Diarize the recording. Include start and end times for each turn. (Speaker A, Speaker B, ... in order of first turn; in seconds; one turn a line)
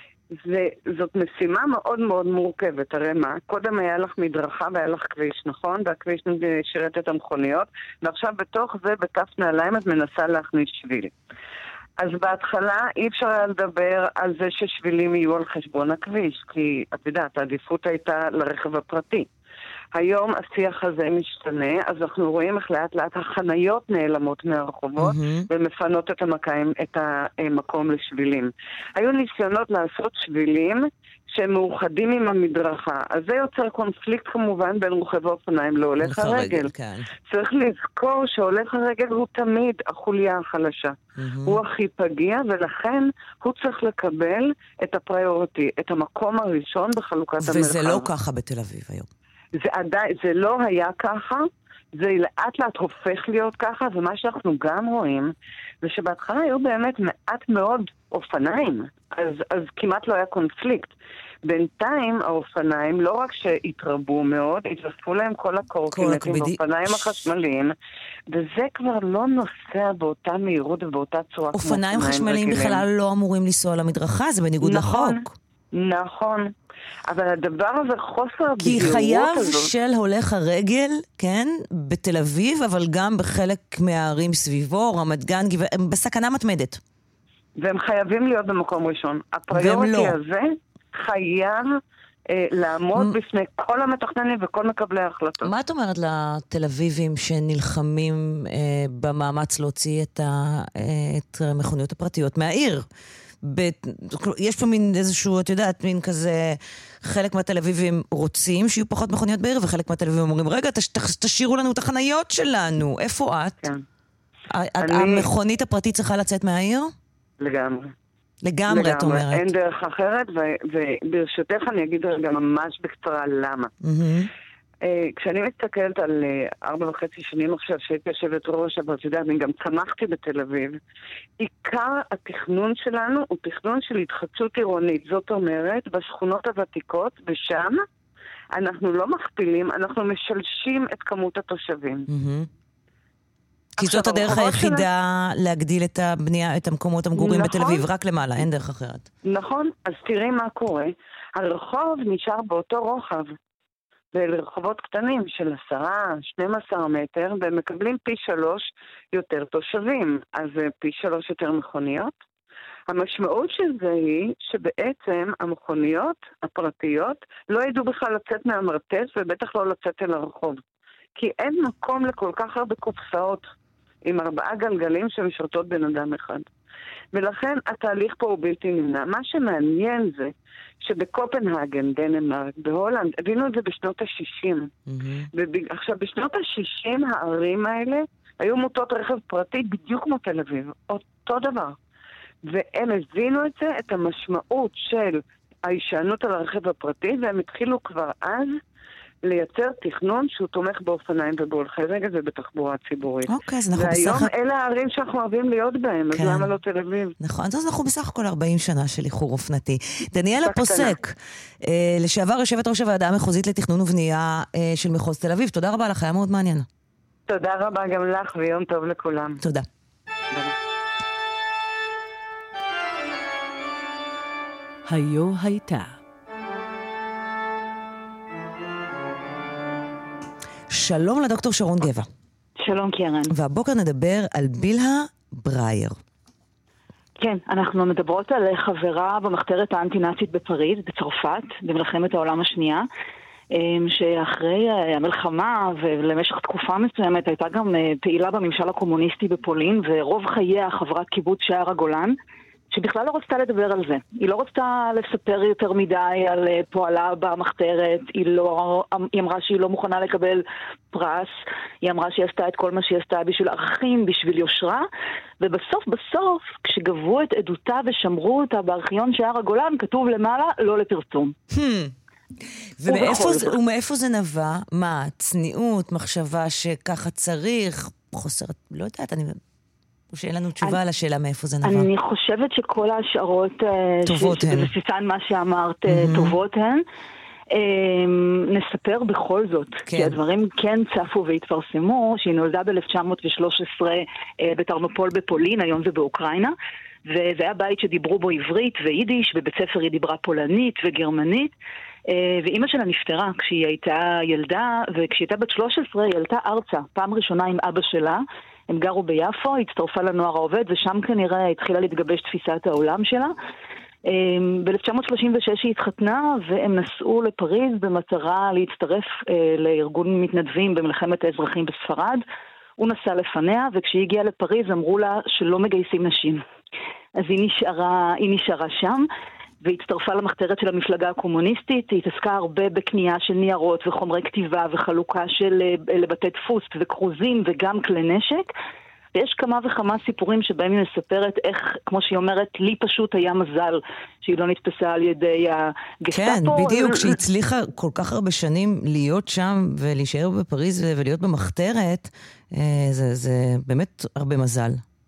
Speaker A: 0.4-11.1
Speaker A: 12.0-19.3
Speaker A: 19.9-36.7
Speaker B: 25.0-25.5
Speaker B: 36.0-37.1
Speaker A: 37.3-41.0
Speaker B: 41.2-41.6
Speaker A: 41.5-48.1
Speaker B: 47.4-49.1
Speaker A: 49.6-51.5
Speaker A: 52.0-55.3
Speaker A: 55.8-60.9
Speaker A: 61.5-67.7
Speaker B: 65.9-67.2
Speaker A: 68.3-72.8
Speaker B: 71.5-75.3
Speaker A: 74.6-75.2
Speaker A: 75.7-76.5
Speaker A: 77.1-79.7
Speaker B: 78.6-86.8
Speaker A: 87.6-91.7
Speaker B: 89.5-90.2
Speaker A: 92.3-95.5
Speaker B: 95.4-102.9
Speaker B: 103.4-113.7
Speaker B: 114.5-116.9
Speaker A: 114.8-115.3
Speaker A: 117.4-117.9
Speaker B: 118.4-119.5
Speaker A: 118.7-123.7
Speaker B: 123.8-124.3
Speaker A: 124.8-130.8
Speaker A: 131.4-137.8
Speaker A: 138.6-142.1
Speaker B: 142.1-142.5
Speaker B: 143.8-149.1
Speaker A: 143.8-144.8
Speaker A: 147.2-147.8
Speaker A: 149.2-153.3
Speaker A: 154.1-162.1
Speaker A: 162.9-170.6
Speaker A: 171.2-173.5
Speaker A: 174.1-176.4
Speaker A: 177.1-180.3
Speaker A: 180.8-184.7
Speaker B: 184.9-185.3
Speaker A: 185.3-191.8
Speaker A: 192.5-198.6
Speaker A: 199.3-207.2
Speaker B: 203.3-204.3
Speaker B: 206.1-206.5
Speaker B: 207.2-216.7
Speaker A: 210.4-210.9
Speaker A: 217.3-219.4
Speaker B: 219.4-219.7
Speaker B: 224.9-225.9
Speaker B: 230.7-232.1
Speaker C: 232.6-233.3
Speaker B: 233.3-235.9
Speaker C: 237.2-242.9
Speaker C: 243.5-252.2
Speaker C: 252.7-264.9
Speaker C: 265.4-271.4
Speaker B: 271.5-271.9
Speaker B: 272.8-279.4
Speaker C: 272.9-273.5
Speaker B: 280.1-281.9
Speaker C: 281.6-286.8
Speaker B: 284.1-284.7
Speaker B: 285.9-286.4
Speaker C: 287.5-296.6
Speaker B: 289.9-290.2
Speaker C: 297.1-301.5
Speaker C: 302.1-313.3
Speaker C: 314.1-322.2
Speaker C: 322.8-326.4
Speaker C: 327.2-329.1
Speaker C: 329.6-338.5
Speaker C: 339.1-347.2
Speaker B: 346.1-354.8